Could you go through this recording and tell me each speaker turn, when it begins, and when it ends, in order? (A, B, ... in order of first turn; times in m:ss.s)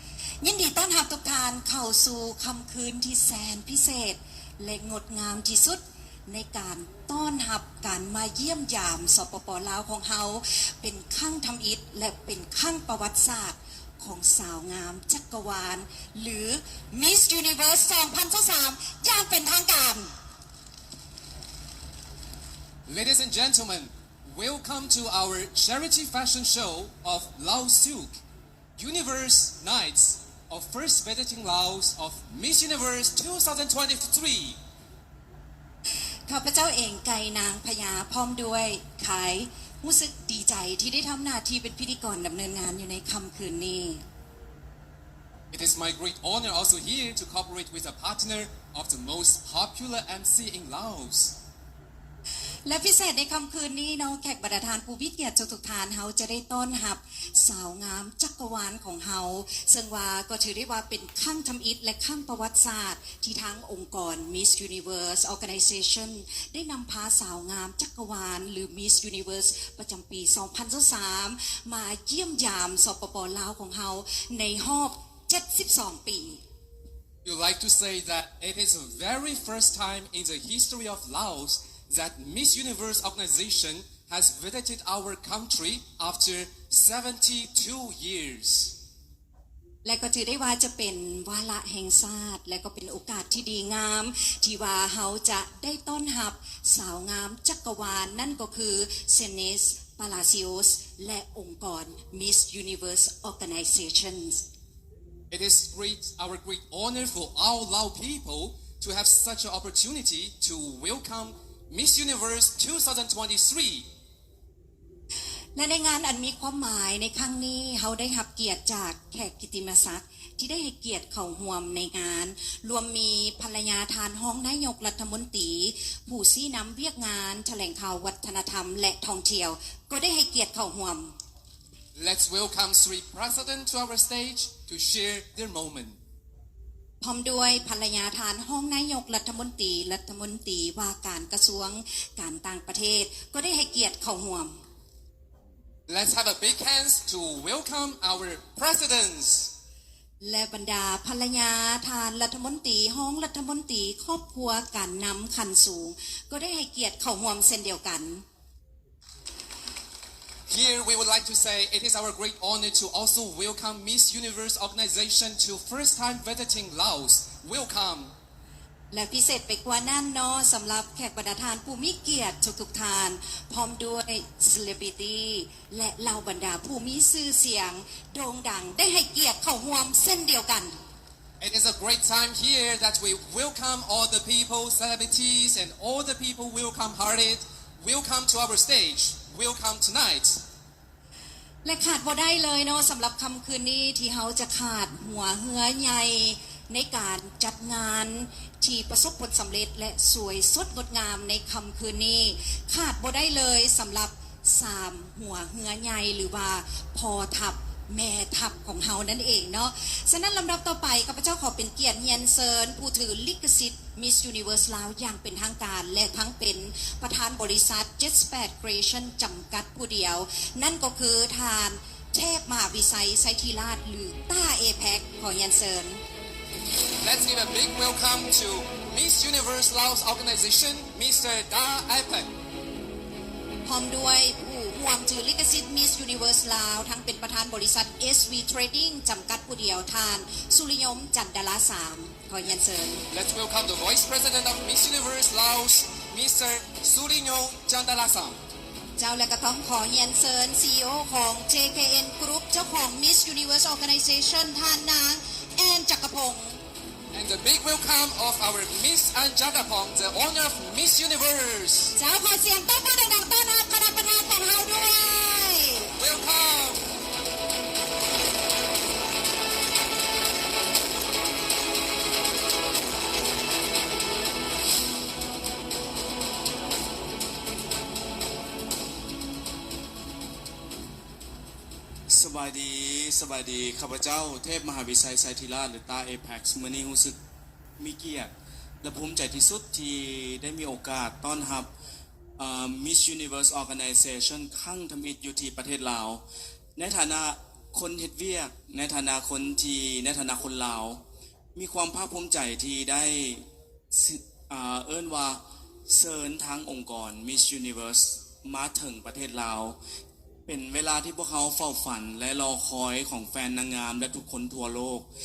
0:00.4-0:20.1 A
0:22.8-0:28.2 B
0:28.8-0:34.6 B
0:36.3-0:44.0 A
0:45.5-0:51.4 B
0:52.6-1:16.4 A
1:17.2-1:28.8 B
1:29.8-1:44.5 A
1:45.3-1:53.9 B
1:55.6-2:11.2 A
2:11.9-2:16.0 B
2:17.0-2:24.6 A
2:25.9-2:29.5 B
2:30.2-2:38.2 A
2:40.5-2:48.1 B
2:48.9-3:00.8 A
3:01.4-3:10.4 B
3:11.6-3:46.0 A
3:47.0-3:52.3 B
3:53.6-4:03.0 A
4:03.1-4:08.4 B
4:09.0-4:16.6 A
4:17.1-4:22.0 B
4:22.0-4:25.9 A
4:26.0-4:26.9 B
4:42.1-4:47.2 C
4:47.8-4:48.3 C
4:48.8-4:51.7 C
4:52.4-4:56.2 C
4:56.8-5:01.0 C
5:01.5-5:09.8 C
5:10.4-5:15.1 C